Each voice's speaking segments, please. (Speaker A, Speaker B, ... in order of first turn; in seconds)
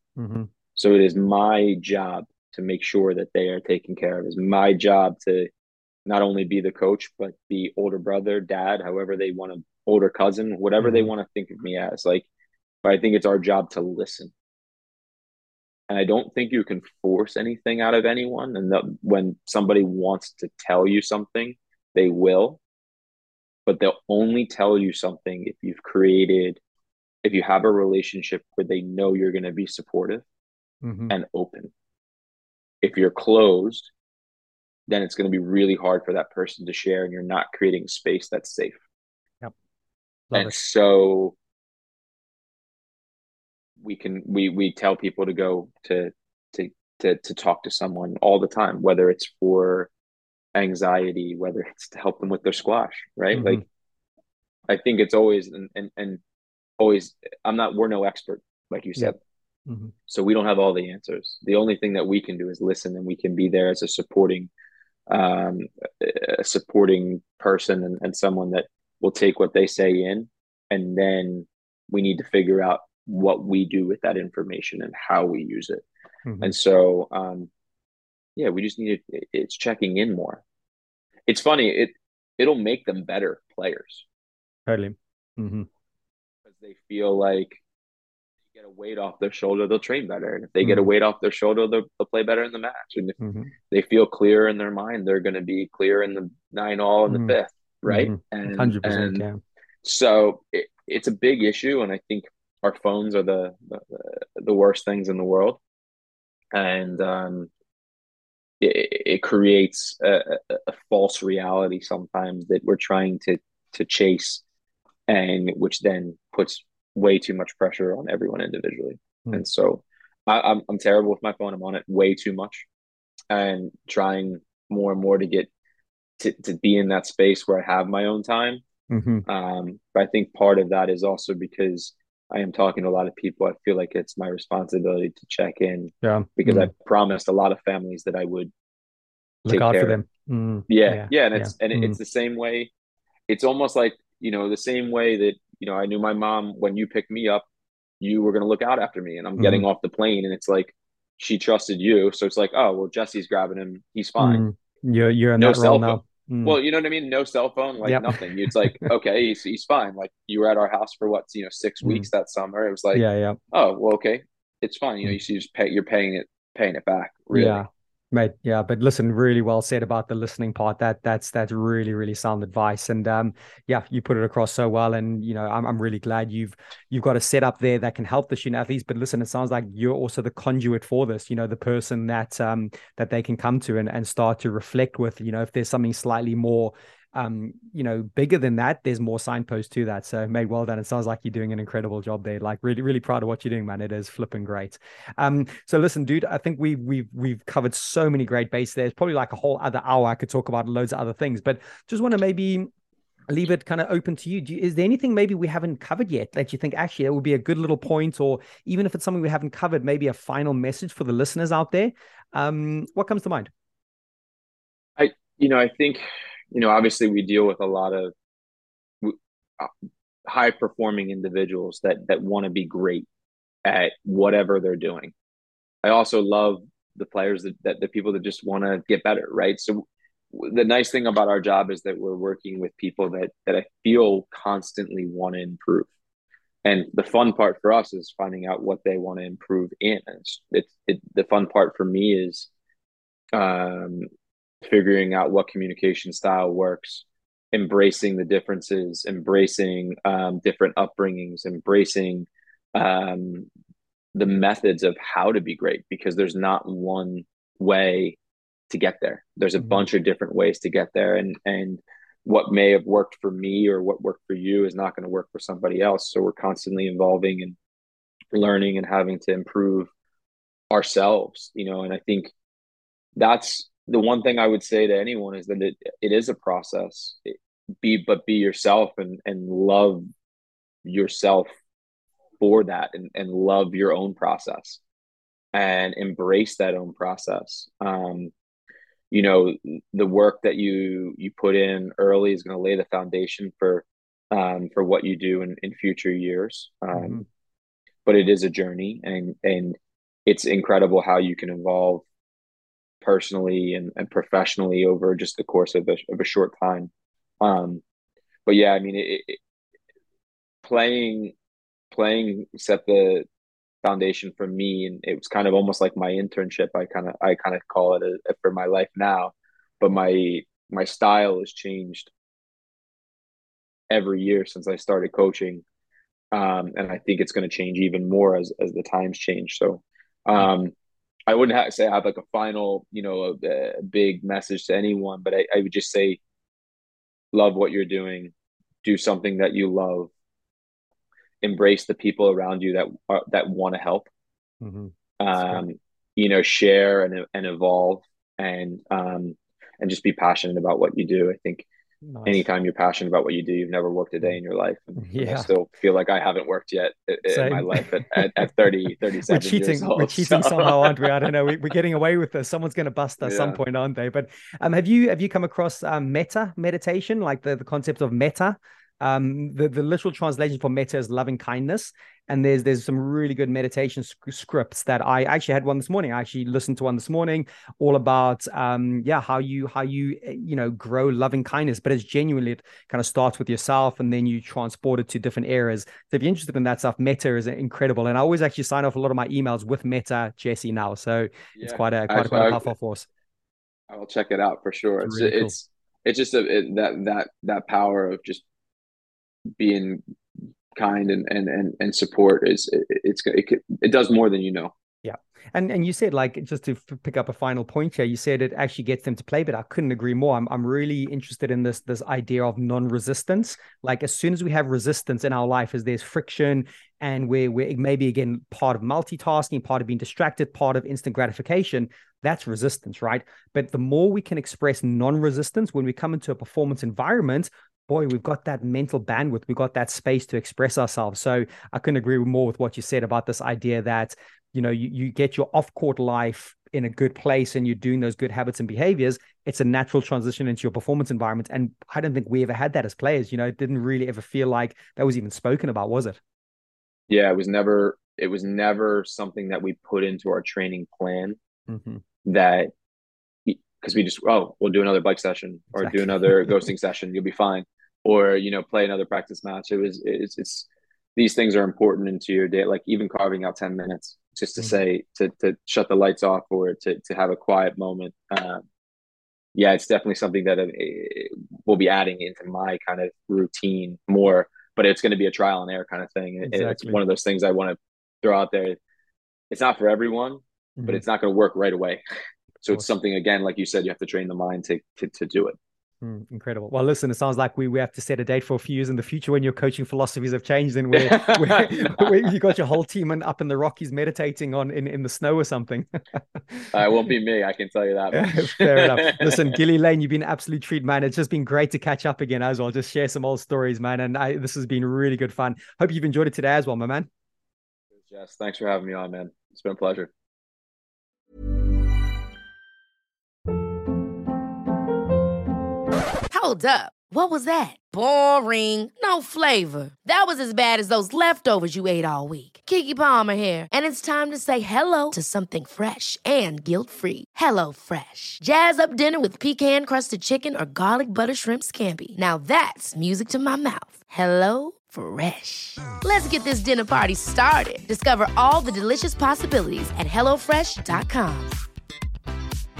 Speaker A: 0.2-0.5, 10.8-11.1, 30.8-31.1, 40.3-40.6, 53.3-53.6, 59.7-59.9, 76.3-76.5, 84.7-85.7, 90.6-90.9, 93.2-93.5, 97.1-97.3, 97.9-99.4, 128.9-129.2, 136.0-136.7, 139.4-142.0, 149.4-149.7, 154.2-156.6, 157.8-158.9, 161.8-162.1, 162.9-163.4, 167.3-202.7, 203.3-213.5, 259.6-259.9, 296.9-297.2, 344.6-345.6, 352.1-352.4, 355.0-355.5, 357.3-357.9, 359.3-393.1, 395.0-395.5, 405.0-446.2, 451.7-452.0, 455.7-456.7, 476.4-477.0, 480.8-481.0, 486.0-495.9, 498.1-507.1
Speaker B: 0.8-5.5, 6.0-12.2, 12.8-14.3, 15.9-22.6, 23.6-26.6, 27.2-30.2, 31.1-31.7, 32.8-33.9, 34.9-38.8, 40.3-41.3, 43.8-49.9, 50.5-53.6, 54.7-56.2, 56.8-59.2, 60.1-64.5, 65.1-75.8, 76.4-77.5, 78.3-80.4, 81.3-84.0, 86.5-87.6, 88.5-93.2, 93.7-99.2, 99.8-105.6, 106.5-107.5, 108.6-114.4, 115.1-122.6, 123.3-125.5, 126.2-128.6, 129.2-138.5, 139.5-140.0, 140.7-142.7, 143.3-147.4, 148.0-154.4, 155.4-167.6, 215.0-218.1, 219.0-219.7, 220.2-223.1, 223.6-225.1, 225.8-235.9, 236.6-242.5, 243.3-244.1, 244.6-253.5, 254.1-258.2, 258.7-267.6, 268.3-269.9, 270.7-272.3, 273.1-280.0, 280.8-281.5, 282.4-284.8, 285.5-288.3, 289.1-297.2, 298.1-302.0, 303.0-307.8, 308.4-309.4, 310.6-311.3, 311.9-313.3, 313.8-322.1, 323.9-325.6, 326.3-330.7, 331.3-336.2, 337.3-340.1, 341.4-344.1, 345.2-351.6, 352.2-361.6, 363.2-363.6, 391.6-392.7, 393.9-398.4, 399.6-400.0, 400.7-404.7, 447.1-451.4, 452.2-452.7, 453.4-468.6, 469.5-478.8, 479.5-482.0, 482.6-485.6, 490.9-492.2, 496.7-499.6, 507.9-510.1
Speaker C: 516.3-541.6